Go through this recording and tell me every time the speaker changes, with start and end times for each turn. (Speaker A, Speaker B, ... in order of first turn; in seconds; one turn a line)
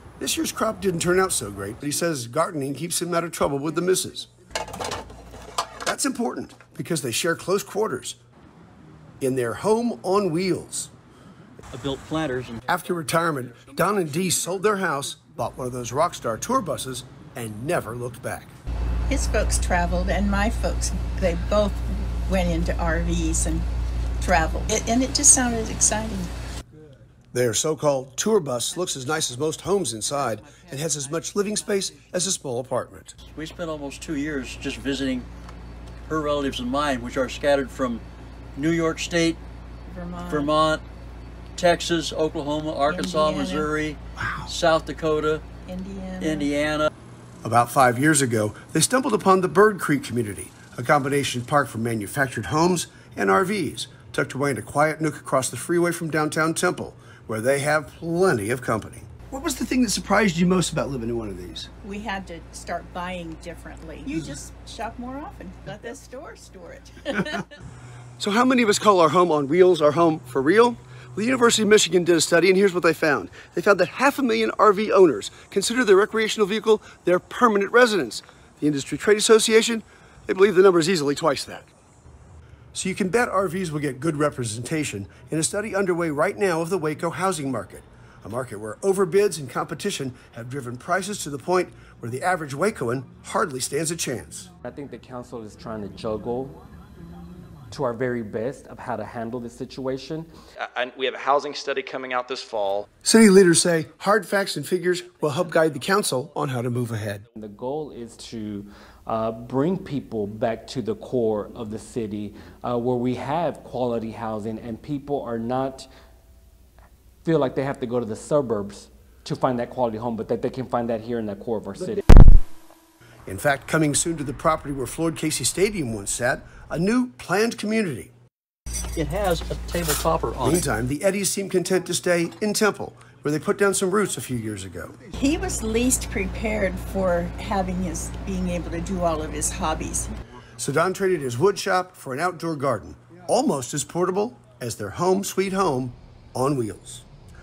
Speaker A: 0.2-4.3
Speaker A: 5.8-8.2
Speaker A: 9.2-10.9
Speaker B: 11.7-12.7
Speaker A: 12.7-18.5
Speaker C: 19.1-23.6
Speaker C: 24.2-26.3
Speaker A: 27.3-33.2
Speaker B: 33.3-35.3
Speaker B: 36.1-38.0
Speaker B: 38.6-39.4
Speaker C: 39.9-40.5
Speaker B: 40.3-40.8
Speaker B: 41.6-45.4
Speaker C: 42.9-43.7
Speaker A: 44.2-44.5
Speaker C: 45.7-46.5
Speaker B: 46.2-46.9
Speaker A: 47.4-61.7
Speaker C: 61.8-67.5
Speaker A: 68.2-81.7
Speaker A: 82.7-94.5
Speaker D: 94.6-96.6
Speaker D: 97.7-100.3
Speaker E: 100.8-102.9
Speaker A: 103.0-107.3
Speaker D: 107.4-115.9
Speaker D: 117.2-122.0
Speaker A: 123.3-128.1
Speaker B: 129.0-130.7
Speaker A: 130.4-134.9
Speaker C: 135.2-140.1
Speaker A: 140.6-147.1